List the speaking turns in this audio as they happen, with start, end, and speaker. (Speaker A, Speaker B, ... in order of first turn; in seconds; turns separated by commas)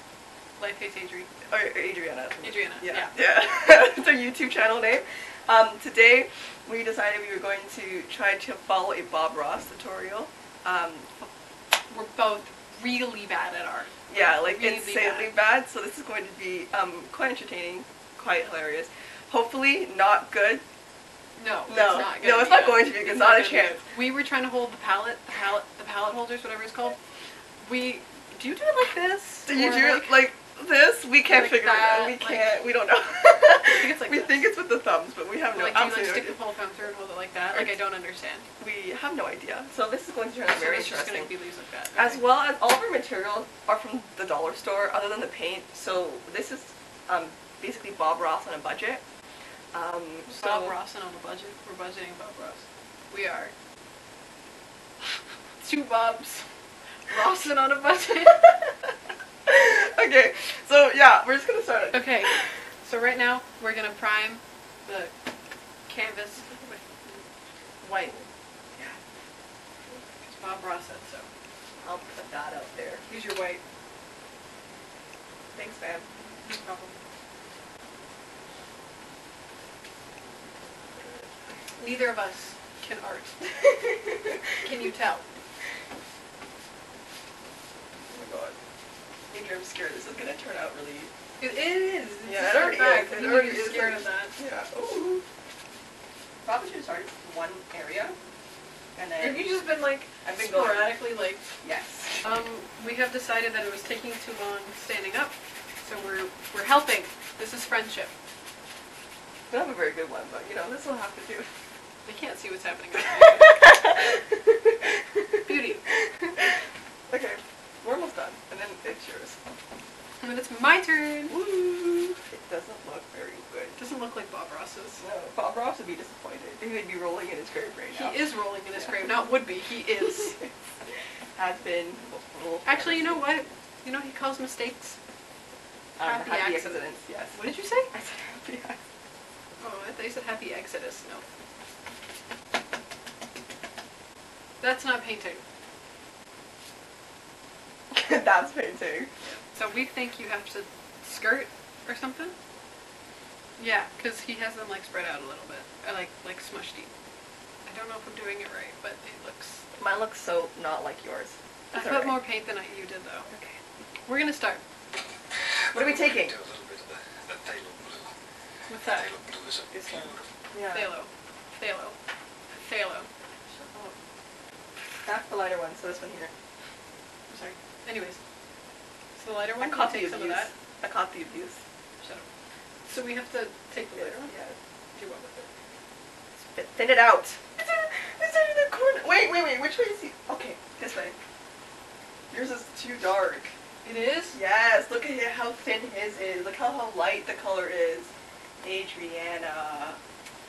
Speaker A: 0.6-1.3, Speaker B: 1.5-11.1, Speaker A: 2.4-3.1, Speaker A: 11.7-15.3, Speaker B: 14.1-20.6, Speaker A: 21.4-27.0, Speaker B: 21.7-23.8, Speaker A: 27.6-30.2, Speaker B: 29.5-36.4, Speaker A: 31.3-32.6, Speaker A: 33.6-34.4, Speaker A: 35.5-38.5, Speaker B: 38.6-41.3, Speaker A: 40.5-42.2, Speaker B: 42.0-49.0, Speaker B: 49.7-50.8, Speaker A: 50.3-53.5, Speaker A: 55.6-56.5, Speaker A: 57.1-58.5, Speaker B: 59.5-62.5, Speaker A: 61.9-65.1, Speaker A: 65.9-67.2, Speaker A: 67.8-68.3, Speaker A: 70.2-71.3, Speaker B: 71.8-73.0, Speaker A: 73.1-73.6, Speaker B: 75.5-76.1, Speaker A: 76.4-77.0, Speaker A: 81.8-83.4, Speaker A: 84.6-85.2, Speaker B: 88.1-88.6, Speaker B: 89.3-91.1, Speaker A: 91.4-94.3, Speaker B: 92.2-95.2, Speaker B: 96.5-98.2, Speaker B: 99.0-99.5, Speaker A: 99.2-101.4, Speaker B: 100.2-101.0, Speaker B: 101.6-102.2, Speaker A: 102.2-108.1, Speaker B: 109.5-111.5, Speaker A: 112.0-113.7, Speaker B: 113.4-115.2, Speaker A: 115.5-115.9, Speaker B: 116.2-116.5, Speaker B: 117.1-119.4, Speaker A: 120.2-121.4, Speaker B: 121.3-123.8, Speaker A: 123.8-125.0, Speaker B: 125.0-128.2, Speaker A: 127.9-130.4, Speaker B: 131.4-133.4, Speaker A: 132.7-135.0, Speaker B: 136.0-137.4, Speaker A: 136.0-137.9, Speaker B: 137.9-138.8, Speaker A: 139.6-141.2, Speaker A: 144.6-145.4, Speaker B: 147.9-149.1, Speaker A: 149.2-152.3, Speaker A: 153.6-156.9, Speaker A: 157.7-159.6, Speaker B: 159.8-162.2, Speaker A: 161.7-163.3, Speaker B: 163.3-163.6, Speaker A: 164.1-164.6, Speaker C: 165.5-168.1, Speaker B: 165.7-166.3, Speaker A: 168.7-169.1, Speaker C: 168.8-170.3, Speaker B: 169.7-170.9, Speaker A: 170.7-172.0, Speaker A: 172.5-173.1, Speaker B: 173.5-173.9, Speaker B: 175.1-176.3, Speaker A: 177.3-178.2, Speaker A: 179.2-180.5, Speaker B: 179.6-181.6, Speaker A: 182.0-182.3, Speaker A: 182.9-184.3, Speaker B: 184.0-184.6, Speaker A: 184.9-185.5, Speaker B: 186.4-191.2, Speaker B: 192.3-193.5, Speaker A: 193.8-194.4, Speaker B: 194.3-198.1, Speaker B: 198.6-200.0